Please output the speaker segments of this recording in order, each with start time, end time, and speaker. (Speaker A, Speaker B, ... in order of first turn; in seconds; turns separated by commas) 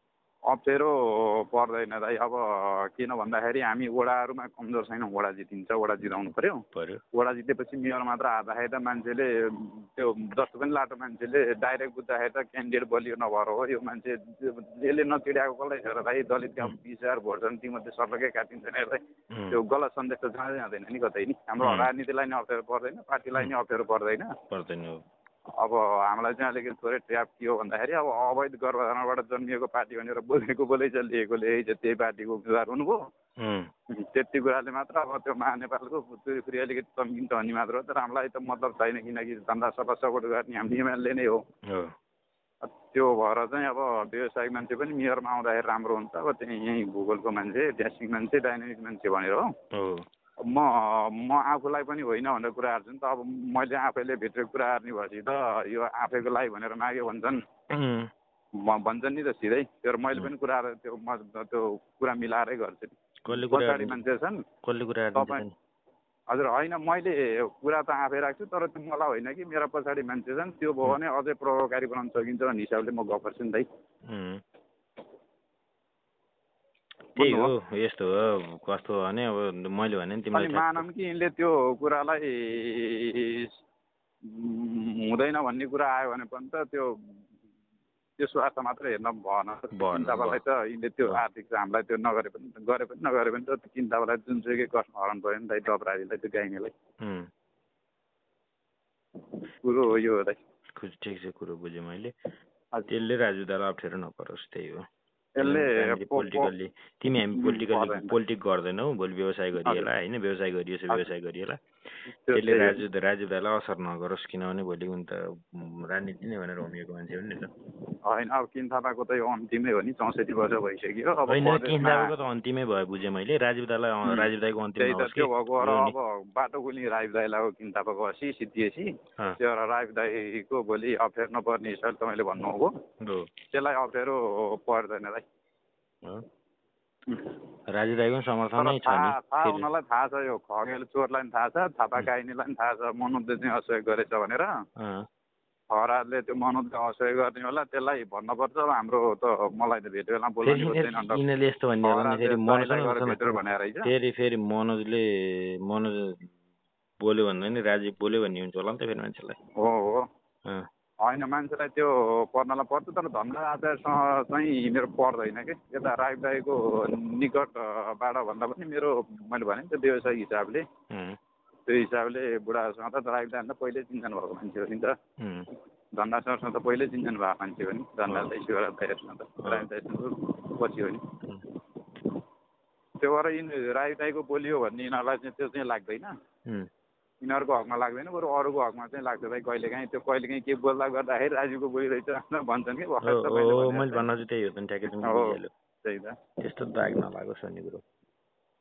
Speaker A: 0.5-24.3, Speaker B: 6.7-7.0, Speaker B: 19.3-19.6, Speaker B: 21.6-21.9, Speaker B: 24.5-25.0, Speaker A: 25.6-33.0, Speaker B: 33.4-33.7, Speaker A: 33.9-41.4, Speaker B: 41.7-41.9, Speaker A: 42.6-49.4, Speaker B: 49.7-50.1, Speaker A: 50.4-57.4, Speaker B: 57.7-58.1, Speaker A: 58.6-64.4, Speaker B: 63.2-63.9, Speaker B: 64.6-65.5, Speaker A: 65.2-65.4, Speaker A: 66.3-73.7, Speaker B: 74.1-74.4, Speaker A: 77.2-77.5, Speaker B: 77.2-80.8, Speaker A: 80.3-83.6, Speaker A: 84.2-86.9, Speaker A: 88.2-96.7, Speaker B: 89.8-90.4, Speaker B: 97.0-97.3, Speaker A: 99.3-100.4, Speaker B: 100.8-102.1, Speaker B: 102.9-104.9, Speaker A: 105.4-106.5, Speaker B: 105.4-111.6, Speaker A: 107.3-108.1, Speaker A: 109.6-109.9, Speaker A: 112.1-112.8, Speaker B: 112.4-117.5, Speaker A: 118.1-122.2, Speaker B: 121.3-125.9, Speaker A: 124.0-128.9, Speaker A: 129.4-132.7, Speaker B: 133.0-133.3, Speaker A: 133.4-135.2, Speaker A: 137.1-137.4, Speaker B: 137.7-139.7, Speaker A: 138.6-144.5, Speaker B: 144.8-145.1, Speaker A: 145.7-151.2, Speaker B: 150.5-153.4, Speaker A: 151.8-153.9, Speaker B: 153.9-156.3, Speaker B: 157.0-159.4, Speaker A: 159.6-160.1, Speaker A: 161.0-170.6, Speaker B: 170.9-171.2, Speaker A: 171.7-175.0, Speaker B: 175.2-175.5, Speaker A: 176.0-181.1, Speaker B: 178.1-178.3, Speaker B: 179.4-179.7, Speaker A: 183.0-186.1, Speaker A: 187.2-194.1, Speaker B: 193.0-195.5, Speaker A: 194.9-196.2, Speaker B: 196.4-197.8